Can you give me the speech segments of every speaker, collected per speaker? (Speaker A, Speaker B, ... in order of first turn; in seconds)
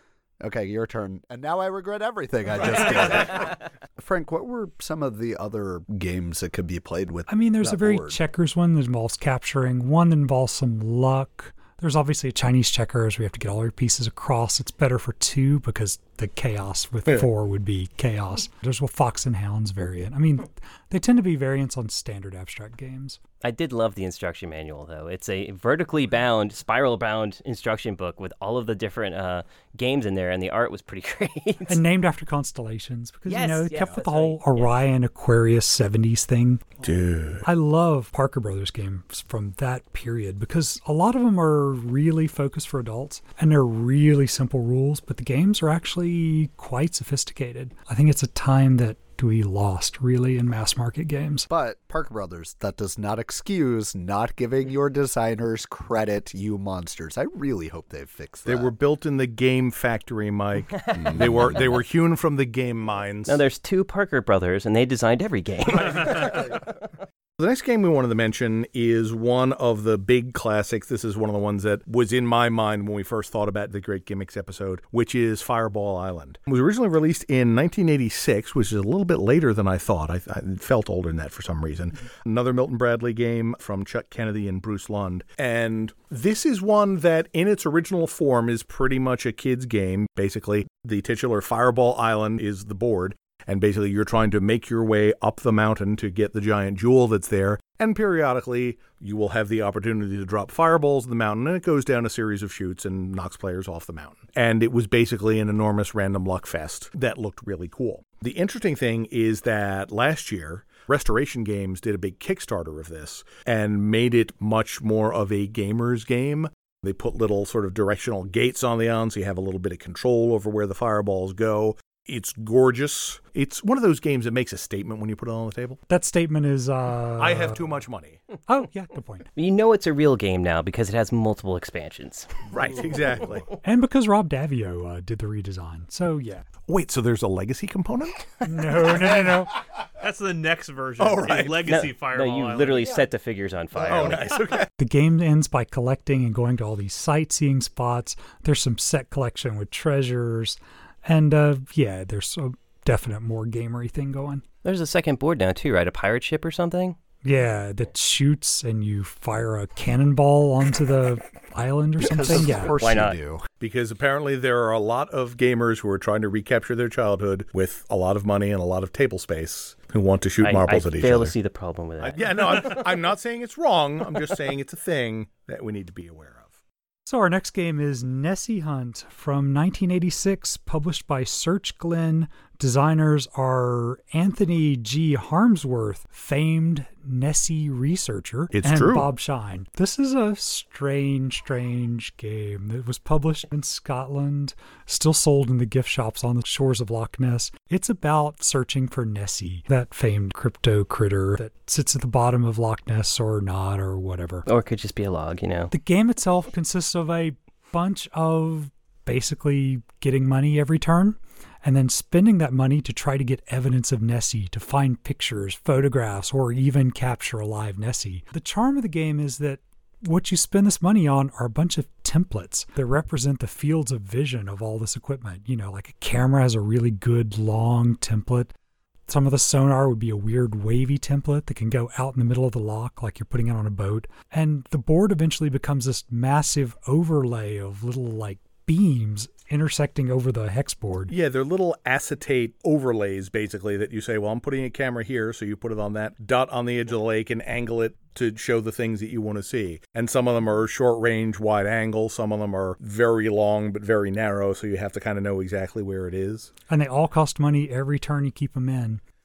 Speaker A: 0.4-8.2, 51.5-58.7, 61.0-61.4, 66.0-66.4, 162.0-163.5
Speaker B: 2.5-3.5, 36.8-37.5, 58.5-63.4, 65.8-66.5, 67.4-125.8, 127.2-128.2, 132.5-133.5, 136.7-139.4, 141.0-141.7, 143.8-144.7, 163.6-171.4, 172.0-176.5, 188.5-189.1, 241.1-256.5
Speaker C: 7.3-23.2, 31.7-36.7, 37.4-51.5, 125.9-127.6, 128.5-129.3, 133.6-136.5, 138.4-139.5, 144.8-154.4, 157.2-162.8, 177.1-204.4, 205.7-228.5, 229.1-241.1, 256.7-259.0
Speaker D: 23.4-31.8, 33.3-34.7, 60.7-61.8, 63.3-66.3, 129.4-133.3, 141.7-144.4, 154.6-157.0, 162.5-163.2, 170.4-172.9, 204.5-205.7
Speaker E: 140.0-143.0